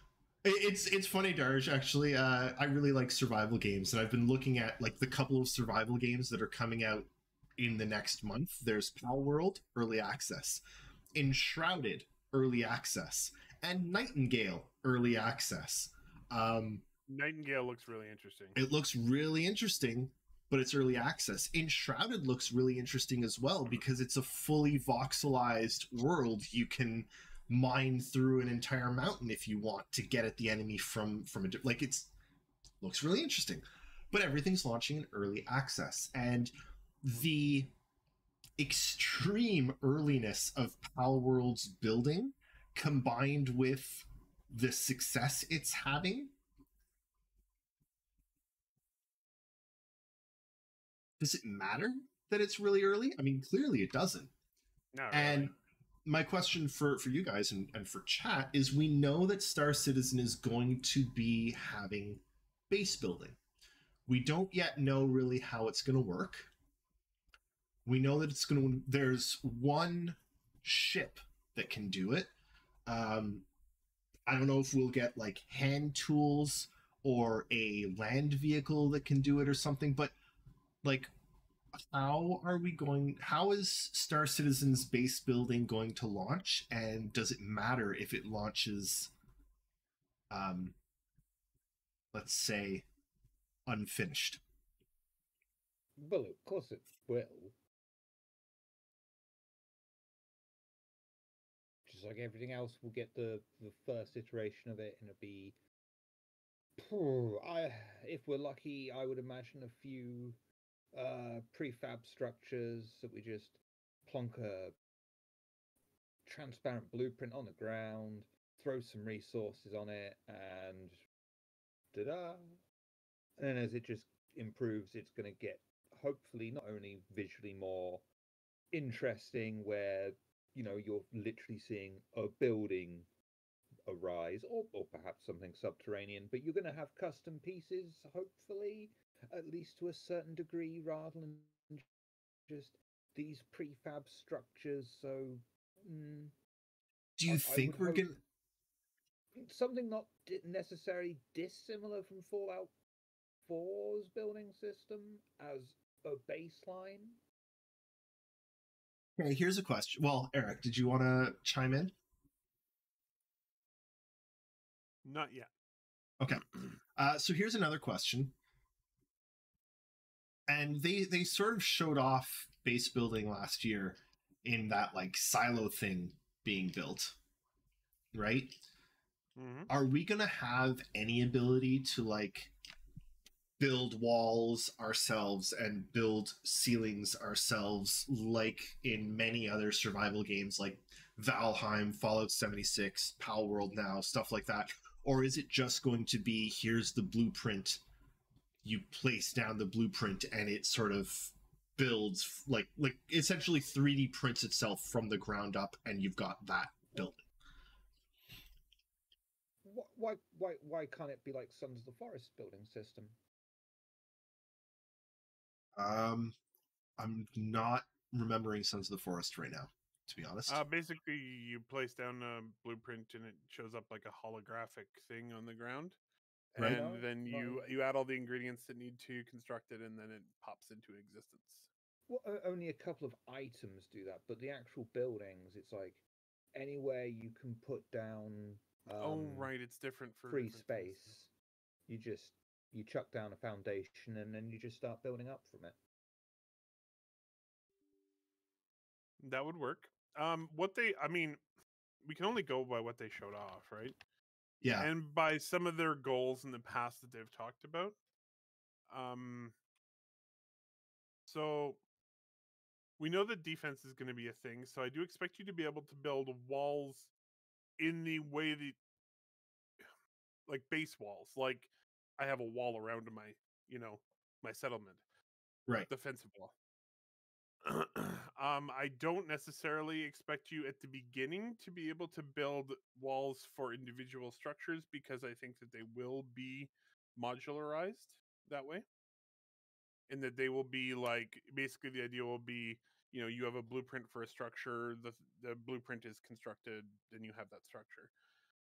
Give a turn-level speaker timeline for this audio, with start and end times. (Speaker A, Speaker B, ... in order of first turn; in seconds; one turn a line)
Speaker A: 0.4-10.6
Speaker A: 11.1-16.9
Speaker B: 17.1-18.6
Speaker A: 18.6-32.1
Speaker A: 32.8-37.7
Speaker A: 38.6-46.3
Speaker A: 51.2-54.3
Speaker B: 54.9-55.5
Speaker A: 55.1-55.5
Speaker A: 56.0-63.4
Speaker A: 64.1-66.5
Speaker A: 67.8-72.3
Speaker A: 72.9-73.5
Speaker A: 74.3-80.1
Speaker A: 80.8-81.1
Speaker A: 81.8-89.1
Speaker A: 90.3-90.8
Speaker A: 92.1-92.9
Speaker A: 93.7-94.4
Speaker C: 96.0-97.6
Speaker C: 101.9-105.6
Speaker C: 106.8-110.4
Speaker C: 110.9-114.8
Speaker C: 116.2-121.0
Speaker C: 121.9-122.6
Speaker C: 123.4-128.1
Speaker C: 128.7-133.1
Speaker C: 133.9-141.9
Speaker C: 142.5-146.3
Speaker A: 147.2-148.2
Speaker C: 147.3-148.1
Speaker C: 149.3-152.7
Speaker C: 153.4-157.2
Speaker A: 159.2-161.9
Speaker B: 165.1-165.5
Speaker A: 166.2-168.3
Speaker A: 170.5-177.2
Speaker A: 178.1-178.6
Speaker B: 179.4-179.7
Speaker A: 179.7-182.5
Speaker A: 183.6-197.8
Speaker A: 198.6-207.3
Speaker C: 209.6-213.2
Speaker A: 215.8-216.4
Speaker A: 217.0-220.6
Speaker B: 220.5-226.0
Speaker B: 226.5-231.7
Speaker A: 226.6-226.8
Speaker C: 226.6-227.7
Speaker C: 232.1-236.0
Speaker C: 236.6-239.5
Speaker B: 239.0-241.2
Speaker C: 240.3-241.3
Speaker C: 241.9-245.8
Speaker B: 249.2-251.4
Speaker B: 252.0-254.0
Speaker A: 254.6-254.9
Speaker B: 254.8-258.0
Speaker B: 258.9-259.6
Speaker B: 261.3-261.8
Speaker B: 263.0-267.1
Speaker B: 267.8-268.8
Speaker B: 270.5-275.0
Speaker B: 275.9-276.5
Speaker B: 277.6-288.9
Speaker B: 290.1-298.1